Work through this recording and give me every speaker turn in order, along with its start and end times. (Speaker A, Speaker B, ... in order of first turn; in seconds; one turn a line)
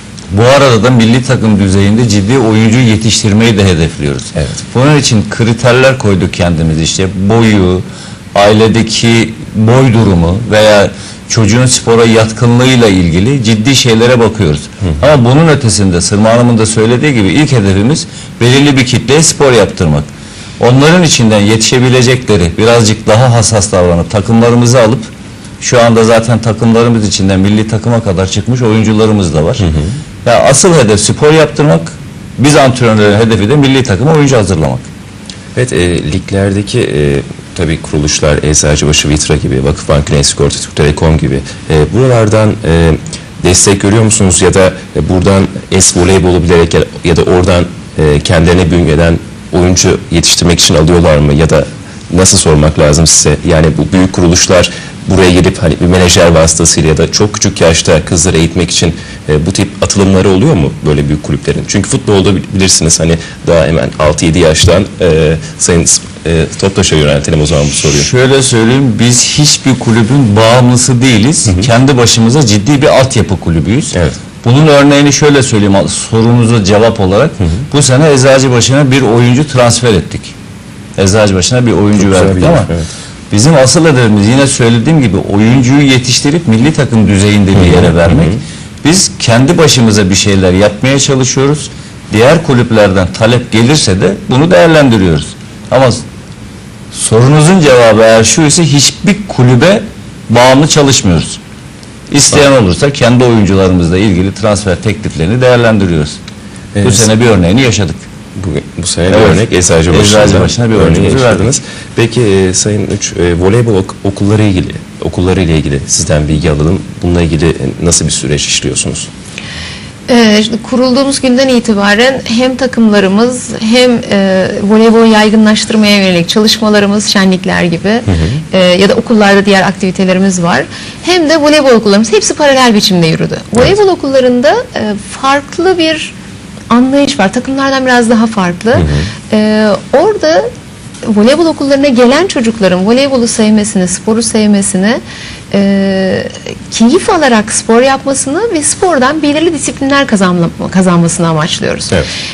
Speaker A: 0.3-7.8
Speaker A: 8.3-20.1
Speaker A: 20.6-29.6
Speaker B: 29.6-29.9
Speaker A: 30.2-34.9
Speaker B: 35.6-68.1
Speaker A: 67.9-80.3
Speaker B: 73.9-74.2
Speaker A: 81.0-82.7
Speaker B: 82.0-82.8
Speaker A: 83.3-96.0
Speaker B: 87.6-88.4
Speaker A: 96.9-101.4
Speaker A: 102.1-106.2
Speaker B: 106.7-107.1
Speaker A: 106.8-108.0
Speaker B: 108.4-119.1
Speaker A: 109.1-111.5
Speaker C: 120.1-136.1
Speaker B: 128.1-128.4
Speaker C: 136.7-140.5
Speaker B: 138.8-139.1
Speaker C: 141.0-145.0
Speaker C: 145.5-151.9